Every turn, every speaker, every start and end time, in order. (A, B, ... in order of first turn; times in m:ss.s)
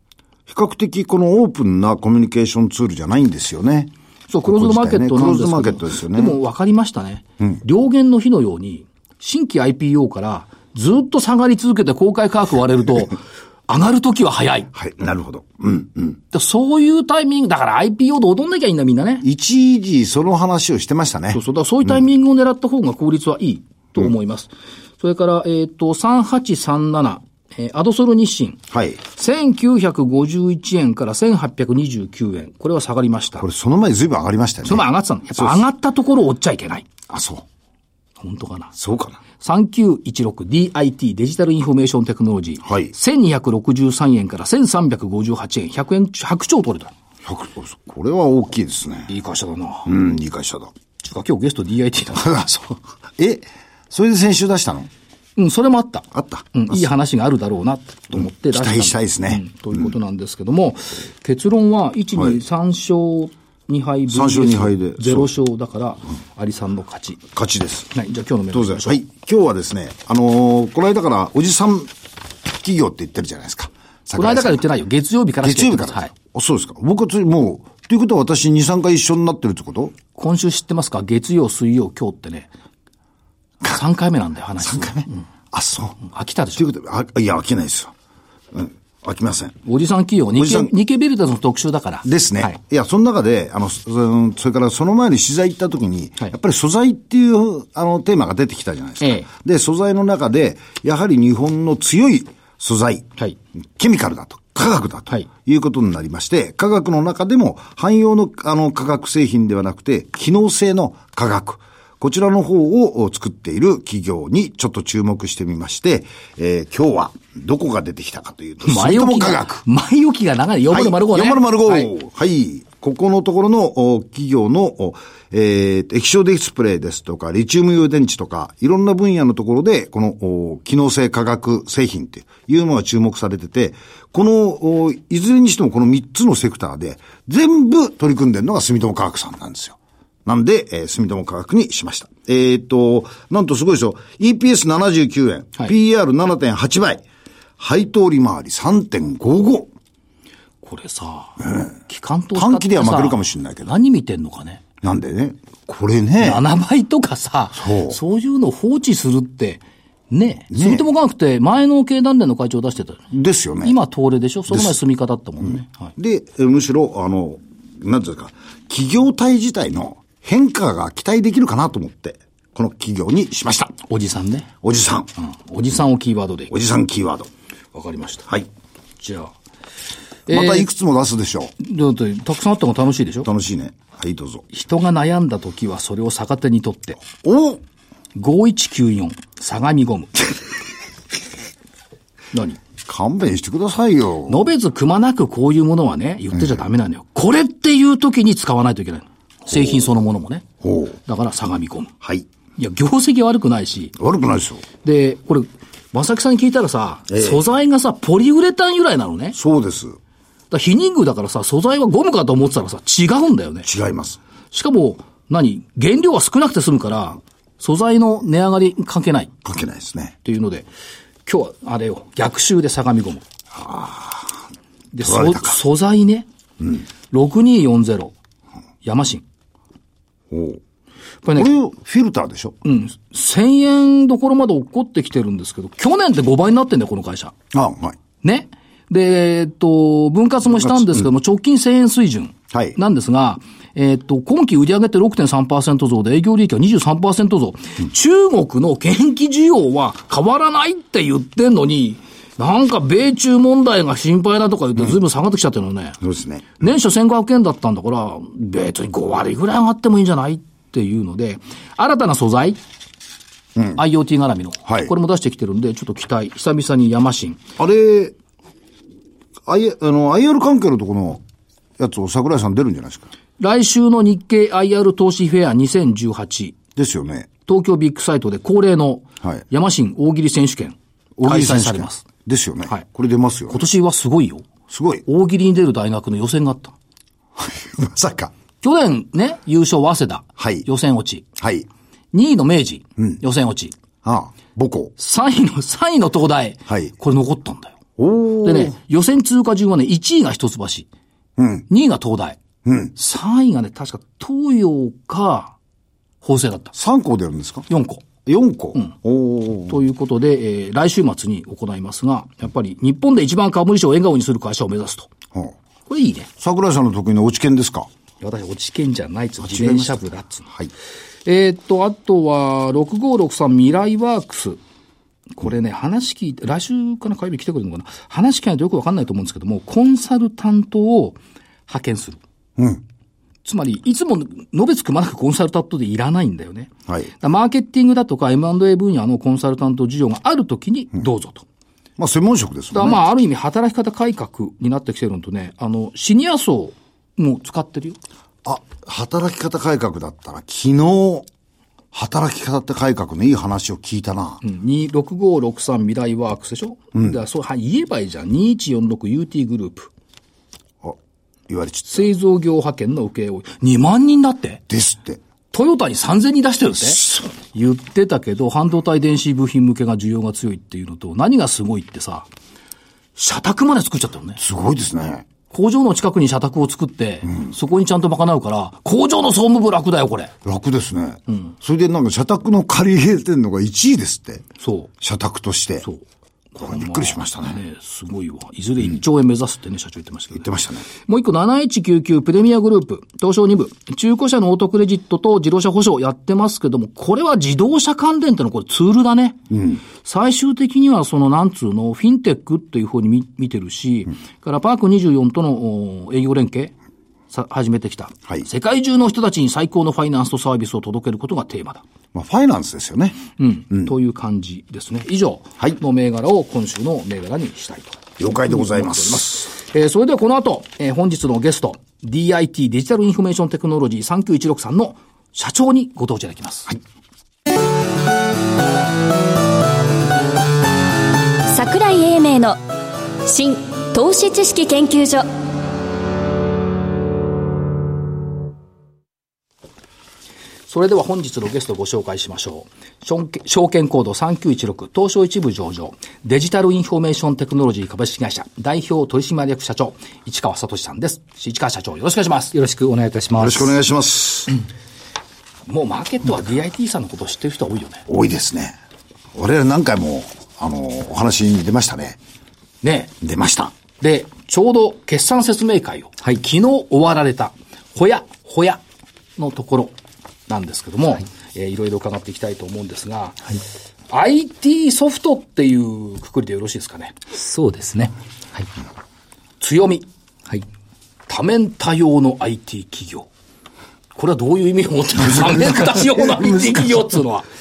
0:00.5-0:03.9 A
0:04.3-0:14.7 B
0:04.4-0:06.4 A
0:14.7-0:16.2 A
0:16.3-0:19.2 B
0:19.2-0:21.4 A
0:21.3-0:33.5 B
0:28.7-0:29.0 A
0:33.4-0:35.6 A
0:34.6-0:36.9 B
0:37.1-0:37.4 A
0:38.2-0:38.7 B
0:38.8-0:39.2 A
0:39.4-0:46.9 B
0:42.6-0:42.9 A
0:47.2-0:49.1 A
0:49.1-0:49.9 B
0:49.8-0:50.7 A
0:51.0-0:52.3 B
0:52.1-0:54.9 A
0:55.4-1:07.2 B
0:56.1-0:56.9 A
0:58.1-0:59.9 A
1:04.1-1:05.3 A
1:07.3-1:07.9 A
1:07.9-1:09.0 B
1:08.5-1:11.9 A
1:12.4-1:14.6 A
1:14.1-1:16.1 B
1:15.4-1:20.0 A
1:20.1-1:22.5 B
1:23.6-1:25.2 B
1:24.6-1:26.0 A
1:26.0-1:26.6 B
1:26.6-1:27.9 A
1:28.5-1:29.6 A
1:29.6-1:32.6 B
1:30.3-1:30.7 A
1:32.0-1:43.1 A
1:39.0-1:39.3 B
1:43.8-1:59.6 A
1:58.6-2:01.9 B
2:00.7-2:27.0 A
2:27.6-2:29.7 A
2:30.6-2:34.6 B
2:32.3-2:33.7 A
2:34.8-2:36.4 A
2:36.2-2:43.0 B
2:37.6-2:38.0 A
2:40.5-2:40.8 A
2:43.1-2:43.8 A
2:43.6-2:45.9 B
2:46.0-2:53.8 A
2:53.9-2:54.5 B
2:54.6-2:55.1 A
2:55.2-2:56.5 B
2:56.5-2:57.3 A
2:57.7-2:58.3 B
2:59.0-2:59.3 B
3:00.3-3:00.7 B
3:00.3-3:01.5 A
3:01.6-3:03.3 B
3:03.2-3:04.4 A
3:04.5-3:07.0 B
3:07.1-3:07.6 A
3:08.1-3:10.3 B
3:12.3-3:12.6 B
3:12.8-3:14.4 A
3:14.3-3:20.4 B
3:20.6-3:21.0 A
3:21.0-3:21.9 B
3:22.0-3:22.2 A
3:22.6-3:24.0 B
3:24.0-3:24.6 A
3:24.8-3:29.4 B
3:27.1-3:27.4 A
3:29.3-3:30.0 A
3:30.5-3:33.7 B
3:33.6-3:34.2 A
3:34.5-3:39.3 B
3:39.4-3:40.1 A
3:40.2-3:40.7 B
3:41.2-3:43.2 B
3:43.5-3:44.4 A
3:44.9-3:46.2 B
3:45.0-3:45.6 A
3:47.1-3:48.1 B
3:48.8-3:49.2 B
3:50.3-3:50.6 A
3:51.2-3:51.5 B
3:51.3-3:52.6 A
3:52.6-3:57.3 B
3:57.5-3:58.0 A
3:58.2-4:16.0 B
4:02.5-4:02.8 A
4:16.0-4:16.6 A
4:16.6-4:22.6 B
4:23.7-4:27.4 B
4:27.6-4:28.1 A
4:29.4-4:31.2 A
4:31.8-4:33.1 A
4:33.4-4:36.6 B
4:36.8-4:37.3 A
4:37.4-4:42.0 B
4:41.2-4:43.6 A
4:43.5-4:44.5 B
4:44.7-4:45.0 A
4:45.0-4:46.7 B
4:47.4-4:48.3 A
4:48.6-4:51.2 B
4:50.4-4:50.7 A
4:51.4-4:51.7 A
4:52.1-4:53.7 B
4:54.0-4:54.9 A
4:55.0-4:57.8 B
4:58.0-4:58.7 A
4:58.4-5:00.9 B
5:01.4-5:01.6 A
5:01.7-5:02.4 B
5:02.6-5:02.9 A
5:02.9-5:05.5 B
5:06.2-5:06.7 B
5:06.7-5:07.7 A
5:07.7-5:08.0 B
5:08.2-5:09.8 A
5:09.7-5:15.1 B
5:15.9-5:16.3 B
5:16.4-5:17.9 A
5:18.2-5:20.5 B
5:19.4-5:20.7 A
5:21.2-5:24.6 B
5:25.4-5:32.2 B
5:32.6-5:32.8 A
5:33.4-5:41.4 B
5:42.0-5:43.0 A
5:42.7-5:48.0 B
5:48.4-5:51.3 A
5:51.9-5:54.4 A
5:54.4-5:59.9 B
6:01.5-6:02.1 A
6:01.9-6:04.6 B
6:04.7-6:05.2 A
6:05.5-6:12.3 B
6:13.2-6:14.4 B
6:14.4-6:15.2 A
6:15.5-6:20.3 B
6:20.4-6:24.4 A
6:24.6-6:24.9 B
6:25.0-6:25.8 A
6:26.5-6:39.4 B
6:26.6-6:27.6 A
6:30.3-6:30.8 A
6:39.5-6:39.8 A
6:39.9-6:46.7 B
6:47.3-6:51.8 B
6:52.1-6:53.9 A
6:53.4-7:06.8 B
6:58.2-6:59.5 A
7:11.5-7:12.6 C
7:13.2-7:15.3 C
7:20.7-7:32.5 B
7:32.5-7:33.8 D
7:33.4-7:34.5 A
7:35.7-7:38.0 B
7:38.1-7:38.8 A
7:39.3-7:42.2 A
7:42.8-7:43.1 B
7:43.2-7:43.7 A
7:44.0-7:48.8 B
7:49.4-7:53.4 B
7:54.1-7:57.2 B
7:57.3-7:58.7 D
7:59.6-8:00.1 B
8:01.3-8:03.3 B
8:04.1-8:07.5 B